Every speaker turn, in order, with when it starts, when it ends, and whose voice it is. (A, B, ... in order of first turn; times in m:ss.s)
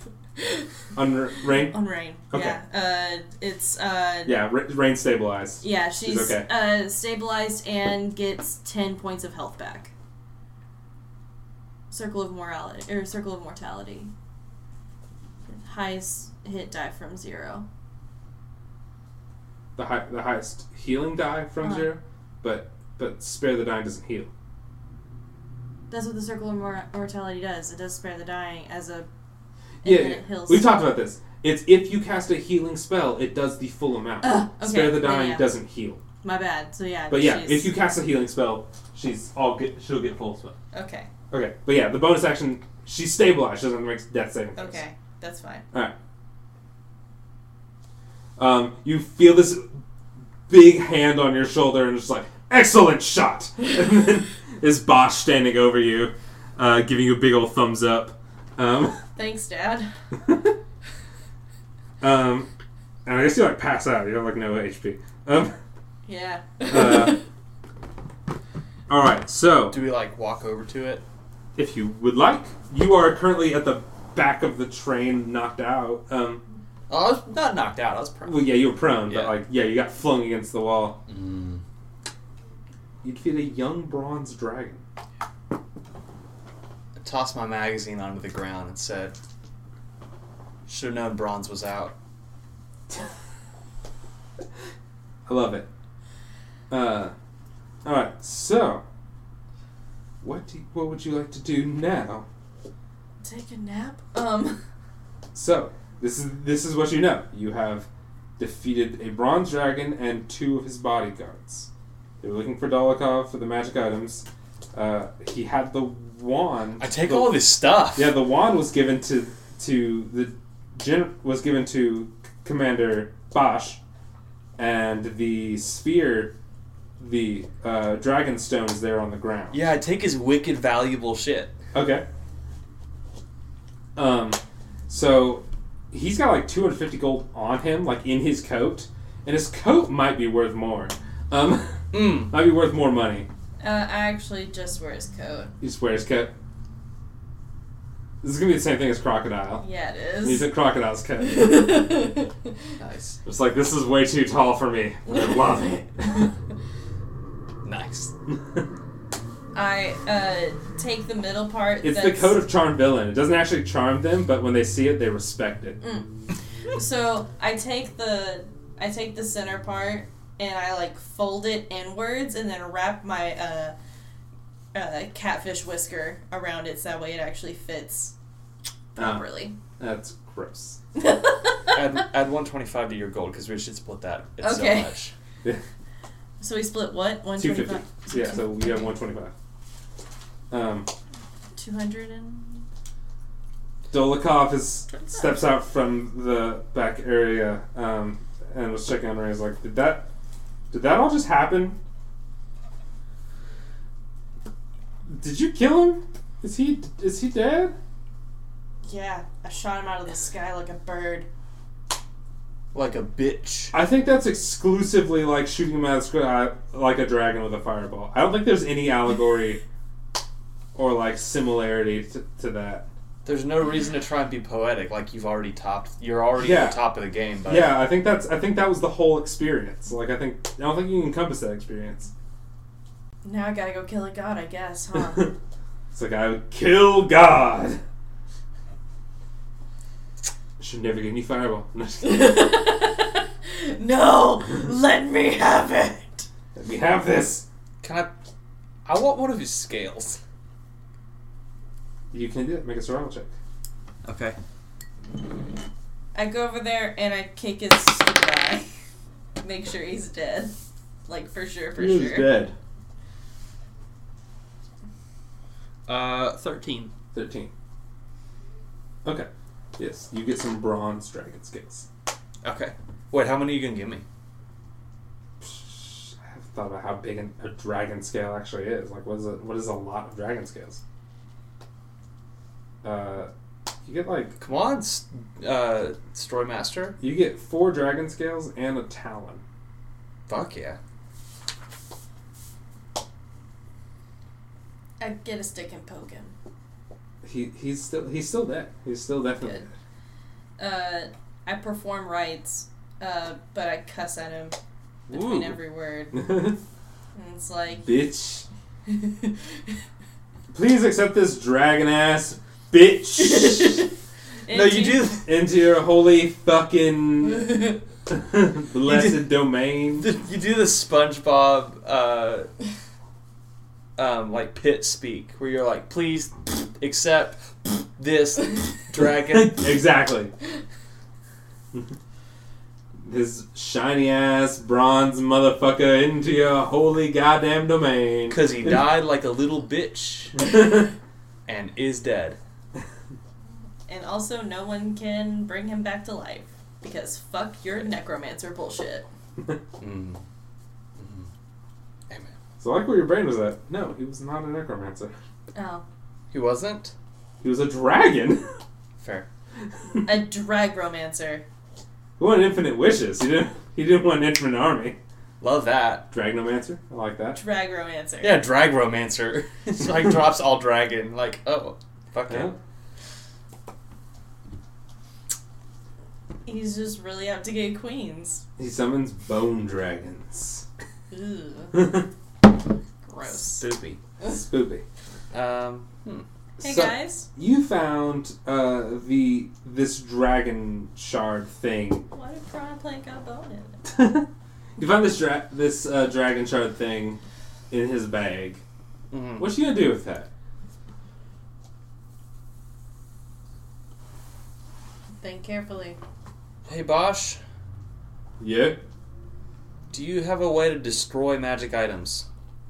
0:00.4-0:00.6 A
0:00.9-0:01.8 B
0:01.7-0:04.4 A
0:02.3-0:02.6 B
0:04.2-0:06.5 B
0:05.6-0:09.9 A
0:11.9-0:14.1 A
0:15.5-0:17.7 A
0:19.8-0:24.3 B
0:21.6-0:21.9 A
0:25.9-0:29.1 A
0:29.8-0:36.0 B
0:29.8-0:30.7 A
0:34.2-0:35.5 A
0:36.2-0:37.7 A
0:37.1-0:40.6 B
0:40.7-0:41.1 A
0:41.3-0:44.8 B
0:44.6-0:45.6 A
0:48.4-0:49.8 B
0:50.5-0:59.0 B
0:59.2-0:59.9 A
1:00.3-1:00.5 B
1:02.0-1:02.5 B
1:03.0-1:05.5 B
1:06.1-1:07.2 A
1:06.7-1:07.2 B
1:08.9-1:09.8 B
1:09.7-1:11.0 C
1:11.6-1:16.4 B
1:16.9-1:19.4 C
1:18.3-1:21.0 B
1:21.1-1:21.6 C
1:23.0-1:24.8 B
1:27.0-1:29.2 C
1:30.7-1:32.0 C
1:35.3-1:35.7 B
1:36.7-1:37.1 B
1:37.8-1:38.8 B
1:40.2-1:42.3 B
1:43.2-1:44.6 A
1:45.3-1:51.7 B
1:52.2-1:57.4 B
1:56.8-1:58.1 C
1:58.0-2:03.8 B
2:04.6-2:06.4 B
2:07.0-2:09.6 B
2:09.5-2:11.5 C
2:11.7-2:12.0 B
2:14.0-2:23.3 B
2:21.9-2:22.3 C
2:23.6-2:25.5 A
2:25.6-2:26.3 B
2:28.2-2:29.6 B
2:29.6-2:30.5 A
2:30.2-2:31.6 B
2:31.2-2:32.5 A
2:32.8-2:33.2 C
2:33.2-2:36.3 B
2:35.1-2:35.8 A
2:37.6-2:38.1 C
2:38.3-2:38.7 B
2:39.5-2:42.4 A
2:41.8-2:45.8 B
2:45.8-2:46.1 A
2:46.7-2:53.8 A
2:54.7-2:58.1 A
2:59.0-2:59.6 A
2:59.0-2:59.3 B
2:59.8-3:00.8 B
3:01.0-3:01.8 A
3:01.7-3:05.1 C
3:04.4-3:05.0 A
3:06.4-3:08.9 A
3:07.4-3:09.3 B
3:10.5-3:10.9 B
3:11.6-3:12.7 A
3:13.9-3:20.1 B
3:14.9-3:15.4 A
3:20.7-3:21.8 B
3:25.1-3:27.8 B
3:28.8-3:31.3 A
3:32.7-3:33.8 C
3:33.7-3:39.6 B
3:40.8-3:42.9 B
3:43.2-3:47.8 C
3:46.4-3:46.8 B
3:47.5-3:52.1 B
3:53.2-3:55.3 A
3:55.0-3:55.3 B
3:55.9-3:57.8 B
4:00.6-4:02.4 B
4:02.0-4:06.3 A
4:06.6-4:07.5 B
4:07.8-4:08.1 C
4:08.8-4:10.2 C
4:12.1-4:13.3 B
4:14.0-4:14.4 C
4:16.2-4:18.7 A
4:19.4-4:20.5 A
4:21.1-4:22.4 A
4:21.8-4:22.5 B
4:25.9-4:26.9 C
4:27.1-4:27.5 B
4:29.0-4:31.9 B
4:32.4-4:34.0 C
4:35.4-4:40.8 B
4:42.8-4:43.3 B
4:43.9-4:44.4 B
4:44.4-4:47.0 C
4:47.0-4:49.4 B
4:50.3-4:50.8 C
4:55.0-4:56.3 A
4:57.2-4:59.7 B
5:00.6-5:04.6 A
5:05.1-5:06.3 A
5:05.1-5:05.6 C
5:06.1-5:06.6 B
5:07.2-5:07.9 A
5:07.8-5:08.5 B
5:08.9-5:09.4 A
5:10.5-5:13.9 B
5:13.3-5:13.8 C
5:13.4-5:13.9 A
5:14.5-5:15.2 A
5:14.5-5:15.3 C
5:15.2-5:20.1 B
5:18.8-5:19.4 C
5:19.9-5:22.5 C
5:24.0-5:29.7 C
5:29.3-5:30.3 B
5:33.0-5:38.8 B
5:38.3-5:40.4 C
5:40.4-5:40.9 B
5:41.5-5:42.4 C
5:43.9-5:49.1 A
5:49.8-5:50.2 C
5:51.0-5:51.3 C
5:52.1-5:52.4 C
5:52.6-5:55.1 B
5:55.6-5:55.8 A
5:56.3-5:56.9 C
5:57.4-5:58.5 B
5:59.0-5:59.3 C
6:00.0-6:01.4 A
6:02.2-6:05.0 B
6:05.4-6:06.1 C
6:06.1-6:07.4 B
6:07.4-6:08.4 A
6:08.2-6:12.5 C
6:12.3-6:12.6 B
6:16.5-6:18.4 A
6:18.6-6:20.7 B
6:21.1-6:21.8 A
6:21.7-6:22.1 B
6:23.0-6:23.7 A
6:23.2-6:24.0 C
6:24.2-6:24.8 B
6:25.3-6:26.3 C
6:26.6-6:32.0 B
6:26.6-6:27.3 A
6:32.1-6:33.8 A
6:33.8-6:38.6 B
6:39.1-6:39.5 C
6:39.4-6:40.3 B
6:45.2-6:46.0 A
6:46.6-6:47.4 C
6:48.4-6:48.8 B
6:49.9-6:52.3 C